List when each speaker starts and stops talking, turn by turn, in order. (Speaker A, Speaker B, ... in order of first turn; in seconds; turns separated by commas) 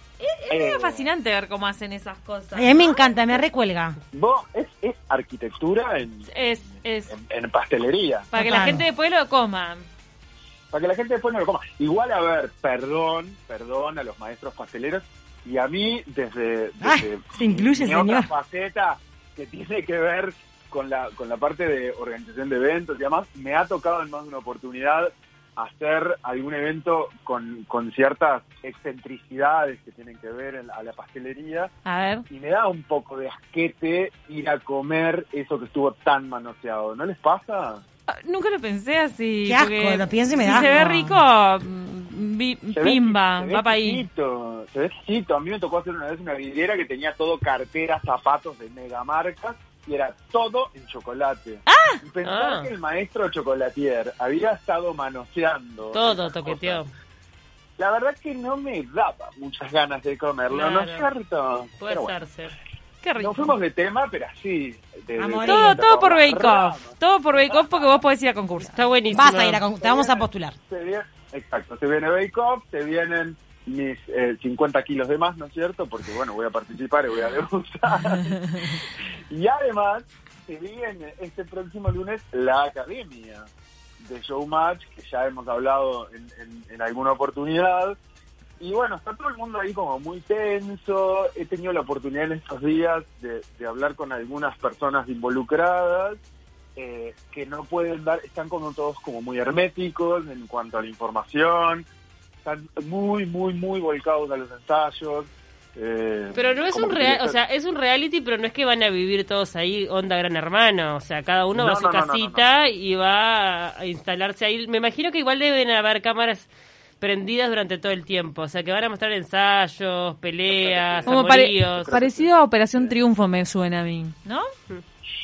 Speaker A: 0.2-3.1, Speaker B: 0.5-1.1, Speaker C: 2.5-4.0, Speaker B: 4.1-6.3, Speaker A: 6.3-7.1, Speaker B: 7.1-8.6, Speaker A: 8.3-9.8, Speaker C: 8.4-8.9, Speaker B: 10.7-31.7, Speaker C: 16.8-18.3, Speaker A: 31.8-32.2, Speaker B: 32.3-37.8, Speaker A: 38.1-44.0, Speaker C: 39.4-41.2, Speaker B: 42.7-56.8, Speaker A: 51.7-52.0, Speaker D: 52.2-52.7, Speaker D: 55.9-56.9, Speaker B: 57.8-62.1, Speaker D: 60.5-61.1, Speaker D: 61.8-62.5, Speaker A: 63.0-63.5, Speaker B: 63.2-67.0, Speaker C: 65.2-65.8, Speaker A: 65.4-68.7, Speaker D: 68.7-69.6, Speaker C: 69.1-70.5, Speaker B: 69.8-83.5, Speaker B: 84.0-88.0, Speaker B: 88.6-96.2, Speaker B: 96.8-101.8, Speaker B: 102.4-107.3, Speaker D: 106.3-116.5, Speaker B: 111.5-112.4, Speaker D: 117.0-122.1, Speaker B: 120.5-123.0, Speaker A: 121.0-124.5